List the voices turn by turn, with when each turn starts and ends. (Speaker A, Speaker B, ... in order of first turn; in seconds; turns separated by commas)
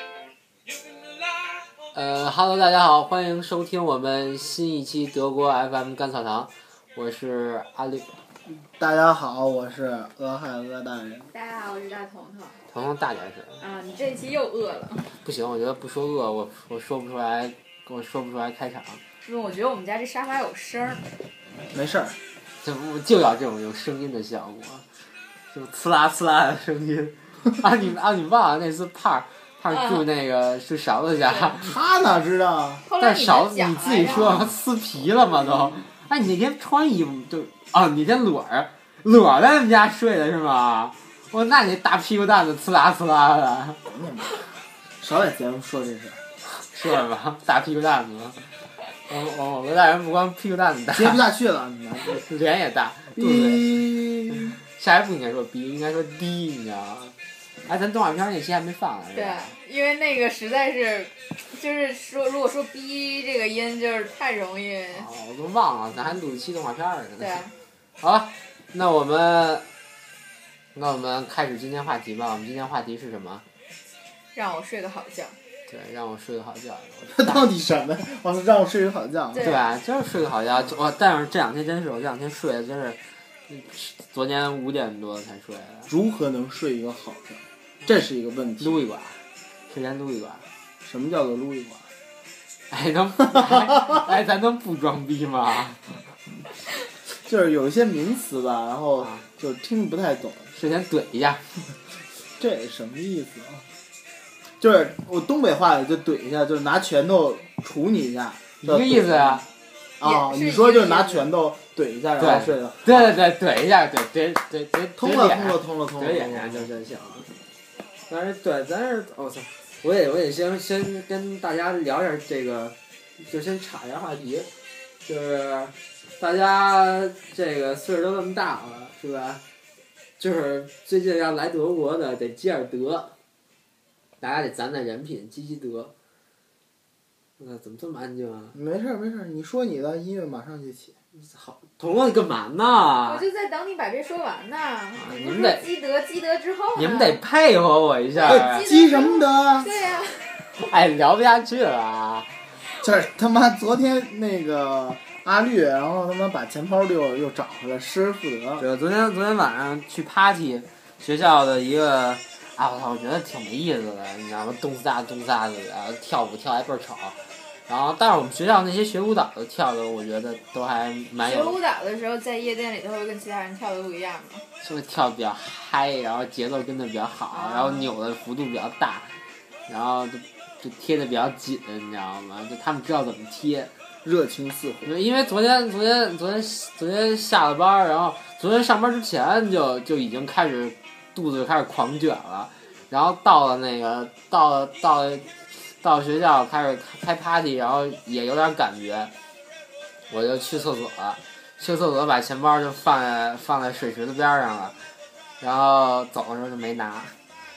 Speaker A: 1.9-8.2, Speaker B: 8.5-11.3, Speaker C: 11.3-12.6, Speaker A: 12.7-13.6, Speaker C: 13.6-15.1, Speaker A: 15.2-19.0, Speaker C: 19.2-21.0, Speaker B: 21.7-22.1, Speaker A: 22.6-24.8, Speaker A: 25.5-31.8, Speaker C: 29.7-30.0, Speaker B: 31.6-32.8, Speaker C: 32.9-34.5, Speaker A: 33.0-43.8, Speaker B: 34.1-34.5, Speaker B: 43.8-44.4, Speaker B: 45.0-46.2, Speaker A: 46.5-48.5, Speaker A: 49.1-51.2, Speaker B: 50.9-52.2, Speaker A: 52.1-57.1, Speaker B: 53.2-54.6, Speaker A: 57.6-59.5, Speaker C: 59.1-65.1, Speaker A: 64.9-67.4, Speaker C: 67.2-67.5, Speaker A: 68.0-69.7, Speaker A: 70.7-73.4, Speaker C: 74.3-75.3, Speaker A: 75.7-77.5, Speaker B: 77.1-79.5, Speaker C: 79.3-79.7, Speaker A: 79.4-85.9, Speaker B: 85.9-88.8, Speaker A: 88.6-89.2, Speaker A: 89.7-90.4, Speaker B: 90.8-91.8, Speaker A: 92.7-96.0, Speaker B: 97.2-100.5, Speaker A: 99.0-99.2, Speaker A: 100.5-101.5, Speaker B: 102.4-103.6, Speaker B: 104.6-109.4, Speaker A: 108.6-109.4, Speaker B: 110.0-113.1, Speaker C: 110.0-111.3, Speaker A: 112.2-117.3, Speaker B: 115.0-116.7, Speaker A: 118.1-124.5, Speaker A: 125.0-129.4, Speaker A: 130.2-133.1, Speaker A: 134.2-135.9, Speaker A: 137.4-138.6, Speaker B: 138.5-140.9, Speaker A: 141.2-143.2, Speaker C: 143.0-147.2, Speaker A: 144.9-145.7, Speaker A: 146.8-148.7, Speaker C: 148.1-150.5, Speaker B: 148.2-149.7, Speaker A: 150.6-152.4, Speaker B: 152.8-158.7, Speaker A: 158.6-171.6, Speaker C: 171.2-174.4, Speaker A: 174.6-179.1, Speaker C: 177.3-177.9, Speaker A: 179.7-183.7, Speaker B: 184.0-184.9, Speaker A: 184.8-199.1, Speaker A: 200.1-204.8, Speaker A: 205.4-207.1